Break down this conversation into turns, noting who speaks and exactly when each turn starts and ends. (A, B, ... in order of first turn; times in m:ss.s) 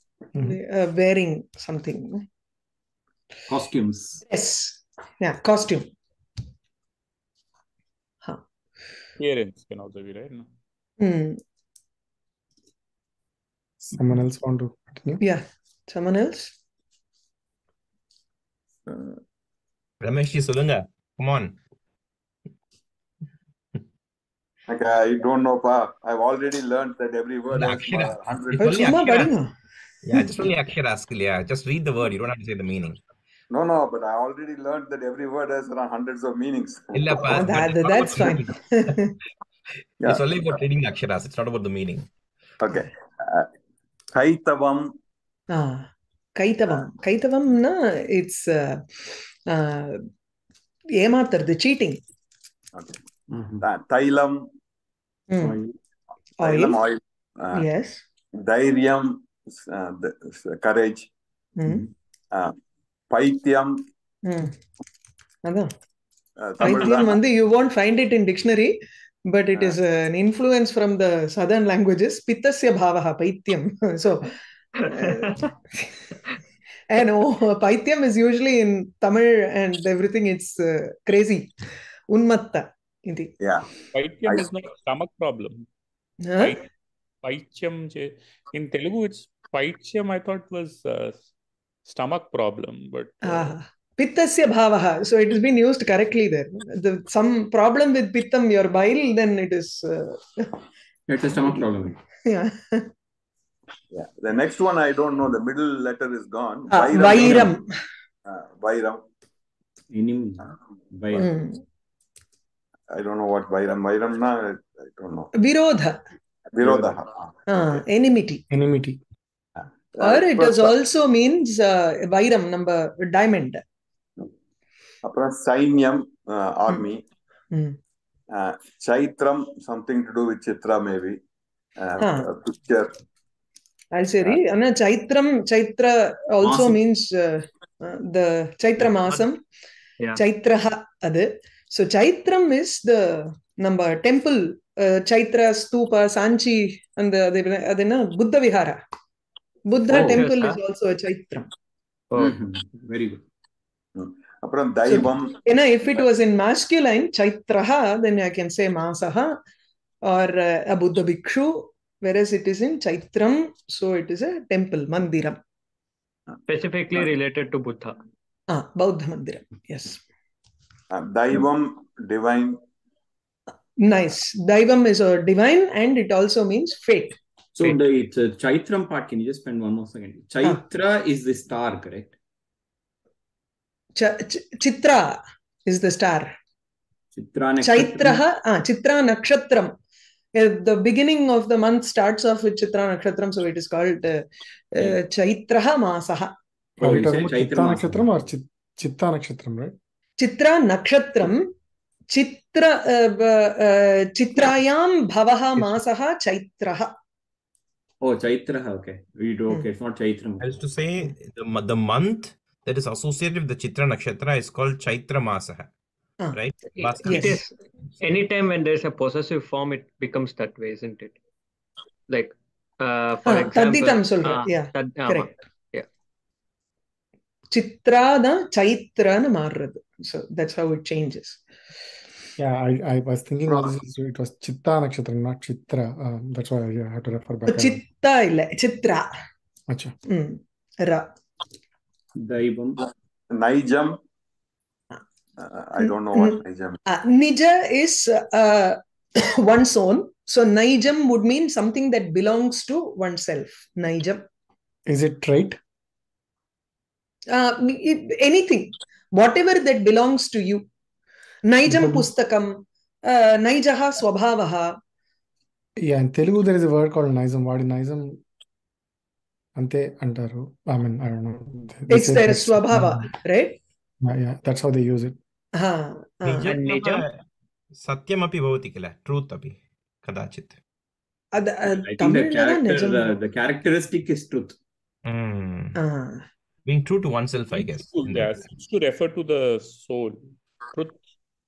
0:00.4-0:02.2 A
0:03.5-0:04.2 B
0:04.2-0:05.9 A
0:09.2-0:10.5 C
0:11.0-0:11.4 A
0:13.8-0:15.2 D
0:15.2-0:16.5 A
0:18.9-0:19.2 A
0:20.0-0:21.5 E
0:24.7-0:29.0 F
0:27.5-0:29.3 E
0:28.6-0:29.5 A
0:30.0-0:33.0 E
0:33.5-0:37.5 F
0:36.9-0:39.0 E
0:37.3-0:39.2 A
0:40.0-0:42.0 E
0:42.6-0:43.5 F
0:44.1-0:44.9 F
0:45.5-0:48.8 A
0:49.5-0:50.0 A
0:50.9-0:52.0 A
0:53.3-0:53.6 B
0:53.6-0:54.5 F
0:55.3-0:55.6 A
0:55.4-0:55.7 B
0:56.4-0:56.8 A
0:56.4-0:57.7 F
0:57.5-0:58.0 A
0:58.4-1:01.1 F
1:01.6-1:01.8 A
1:03.1-1:03.9 F
1:04.2-1:04.5 A
1:06.4-1:07.2 F
1:06.6-1:08.8 A
1:09.3-1:16.1 A
1:16.9-1:21.5 A
1:22.1-1:23.3 A
1:23.4-1:23.7 F
1:23.9-1:25.6 C
1:26.2-1:26.6 A
1:26.4-1:26.7 C
1:27.2-1:31.3 C
1:31.8-1:33.5 C
1:33.2-1:40.6 A
1:41.1-1:42.0 B
1:41.3-1:41.7 A
1:42.2-1:42.9 A
1:43.9-1:47.5 F
1:46.7-1:47.7 A
1:47.1-1:47.5 B
1:48.2-1:49.0 F
1:49.9-1:51.3 B
1:51.1-1:51.6 A
1:52.9-1:55.3 F
1:55.4-1:56.0 A
1:56.5-1:57.8 F
1:56.6-1:57.0 B
1:57.5-1:58.4 A
1:58.5-1:59.0 D
1:59.6-2:00.7 F
2:00.0-2:03.6 A
2:05.0-2:07.0 F
2:07.5-2:07.8 A
2:08.3-2:11.2 F
2:11.8-2:13.0 F
2:12.0-2:12.3 A
2:13.9-2:19.4 A
2:16.4-2:16.8 B
2:20.2-2:28.8 A
2:29.7-2:31.5 A
2:29.9-2:30.2 B
2:30.0-2:30.6 G
2:32.1-2:33.2 B
2:34.0-2:35.4 F
2:34.9-2:39.4 A
2:40.0-2:45.4 A
2:46.5-2:48.0 G
2:48.5-2:50.0 A
2:50.9-2:52.6 F
2:53.8-2:57.2 A
2:57.6-3:02.1 B
3:04.0-3:06.3 A
3:07.1-3:08.2 B
3:07.6-3:09.7 A
3:10.3-3:16.3 A
3:16.8-3:18.0 B
3:16.8-3:19.8 D
3:20.2-3:21.5 A
3:22.1-3:26.9 A
3:28.0-3:30.5 B
3:30.4-3:35.7 E
3:36.3-3:37.4 E
3:36.7-3:41.1 G
3:37.0-3:37.5 A
3:42.1-3:45.9 G
3:43.2-3:45.4 A
3:47.5-3:51.4 A
3:52.4-3:57.8 D
3:57.5-3:59.1 A
3:59.7-3:59.9 D
4:00.1-4:01.1 A
4:02.2-4:02.8 B
4:03.3-4:04.0 F
4:05.4-4:06.8 F
4:05.8-4:14.3 A
4:14.9-4:15.6 D
4:17.3-4:20.6 A
4:21.4-4:24.8 A
4:21.6-4:22.1 D
4:25.8-4:28.2 D
4:29.6-4:33.1 D
4:31.9-4:33.6 A
4:34.0-4:35.2 D
4:35.6-4:36.5 A
4:36.2-4:37.2 E
4:36.5-4:37.0 G
4:37.8-4:40.6 E
4:41.3-4:43.1 A
4:41.6-4:44.6 B
4:45.0-4:45.8 E
4:45.8-4:46.2 A
4:46.6-4:48.4 E
4:47.5-4:51.0 C